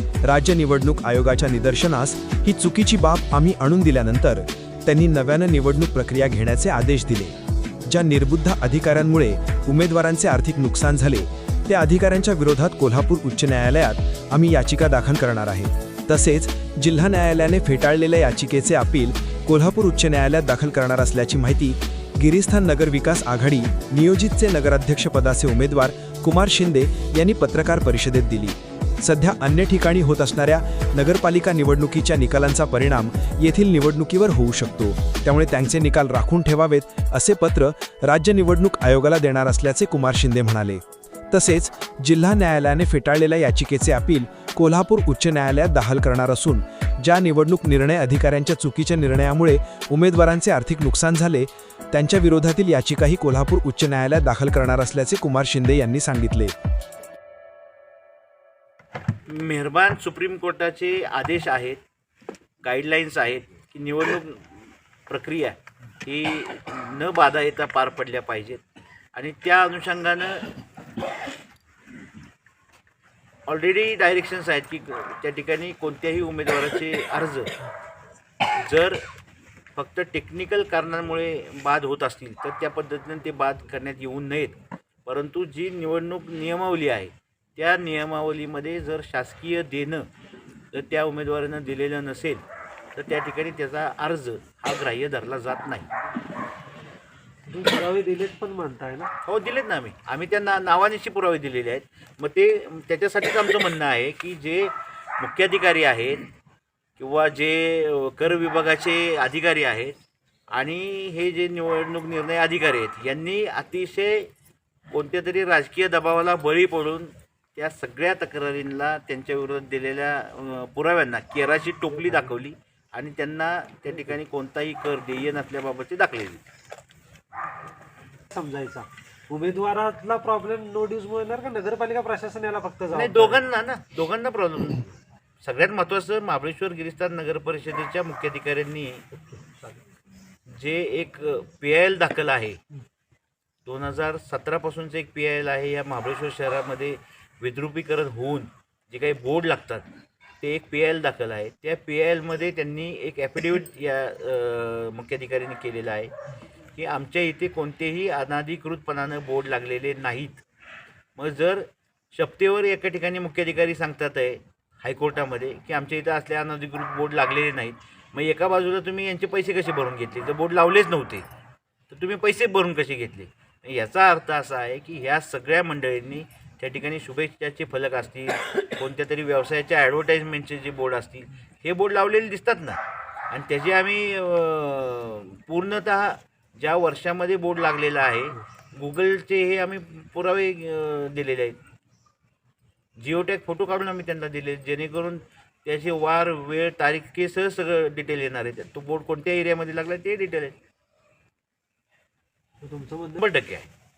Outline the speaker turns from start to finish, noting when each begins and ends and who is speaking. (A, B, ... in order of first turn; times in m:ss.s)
0:00.2-0:07.3 A
0:07.9-0:56.6 A
0:59.3-1:01.8 B
1:02.6-1:08.6 B
1:09.1-1:10.5 B
1:13.5-1:17.5 B
1:18.6-1:19.0 B
1:19.8-1:30.1 B
1:30.7-1:32.4 B
1:33.0-1:35.9 B
1:37.5-1:39.1 C
1:39.2-1:46.2 B
1:47.0-1:50.0 B
1:50.5-1:54.3 B
1:54.9-2:06.5 B
2:08.3-2:13.4 C
2:12.9-2:19.0 B
2:20.5-2:22.6 B
2:23.7-2:29.9 B
2:30.4-2:36.1 B
2:36.8-2:40.4 B
2:41.2-2:51.3 B
2:51.9-3:02.8 B
3:03.3-3:11.6 B
3:13.0-3:20.6 B
3:22.6-3:23.2 C
3:23.2-3:23.7 B